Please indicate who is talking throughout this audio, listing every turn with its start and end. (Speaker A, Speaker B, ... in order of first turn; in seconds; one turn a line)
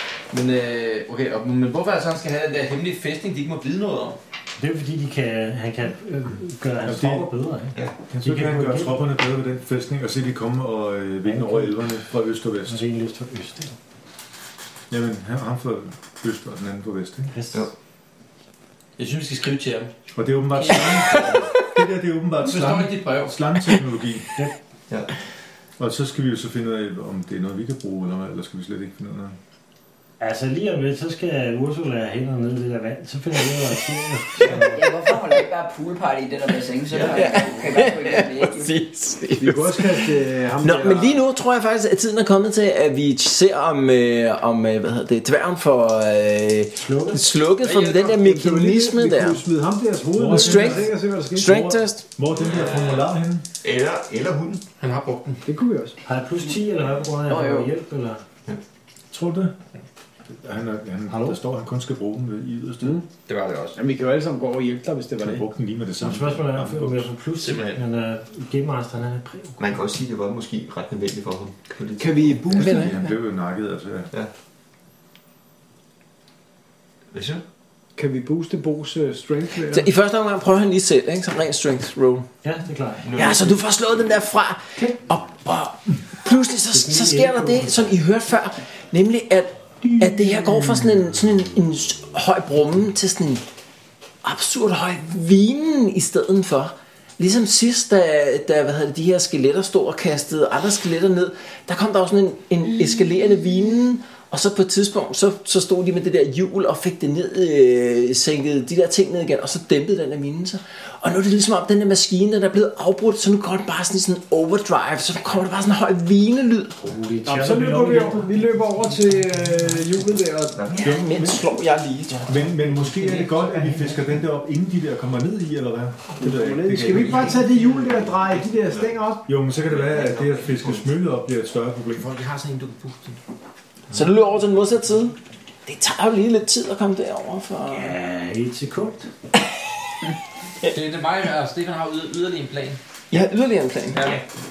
Speaker A: 0.3-4.2
Speaker B: 4.6-9.0
Speaker C: 6.8-7.3
Speaker C: 8.1-12.8
Speaker B: 11.2-11.9
Speaker B: 12.7-13.8
Speaker C: 14.9-17.3
Speaker B: 17.3-17.7
Speaker A: 19.0-19.9
Speaker C: 20.1-24.3
Speaker A: 22.4-23.8
Speaker C: 25.8-29.4
Speaker B: 30.2-34.9
Speaker D: 34.4-34.7
Speaker E: 34.7-38.7
Speaker D: 36.9-37.3
Speaker F: 37.0-49.4
Speaker G: 39.4-41.2
Speaker B: 46.8-47.2
Speaker G: 47.8-51.7
Speaker C: 50.1-53.5
Speaker F: 50.3-52.0
Speaker D: 52.3-54.6
Speaker A: 54.8-55.4
Speaker G: 55.5-56.0
Speaker B: 56.1-58.2
Speaker E: 57.3-57.7
Speaker C: 59.1-59.6
Speaker C: 60.4-63.0
Speaker G: 62.8-63.1
Speaker A: 63.3-63.8
Speaker G: 63.8-65.5
Speaker C: 65.2-67.1
Speaker B: 66.0-69.6
Speaker D: 67.4-67.8
Speaker D: 69.6-72.4
Speaker G: 72.0-72.9
Speaker F: 72.5-73.1
Speaker C: 72.6-74.1
Speaker D: 77.1-77.4
Speaker G: 78.0-79.9
Speaker F: 79.5-82.3
Speaker B: 82.4-83.3
Speaker D: 83.0-83.6
Speaker F: 83.1-93.4
Speaker B: 86.7-87.9
Speaker C: 89.9-91.0
Speaker F: 94.2-116.8
Speaker B: 116.8-119.5
Speaker G: 117.3-120.8
Speaker D: 120.6-121.2
Speaker F: 120.8-122.4
Speaker C: 120.9-121.5
Speaker C: 122.2-127.5
Speaker B: 123.5-123.8
Speaker G: 126.2-129.3
Speaker D: 127.0-127.4
Speaker A: 127.5-127.8
Speaker D: 128.1-128.9
Speaker C: 129.3-132.1
Speaker D: 129.6-130.9
Speaker A: 132.0-133.2
Speaker F: 133.9-138.0
Speaker B: 137.7-139.1
Speaker A: 140.7-142.8
Speaker F: 143.1-144.0
Speaker A: 143.9-144.2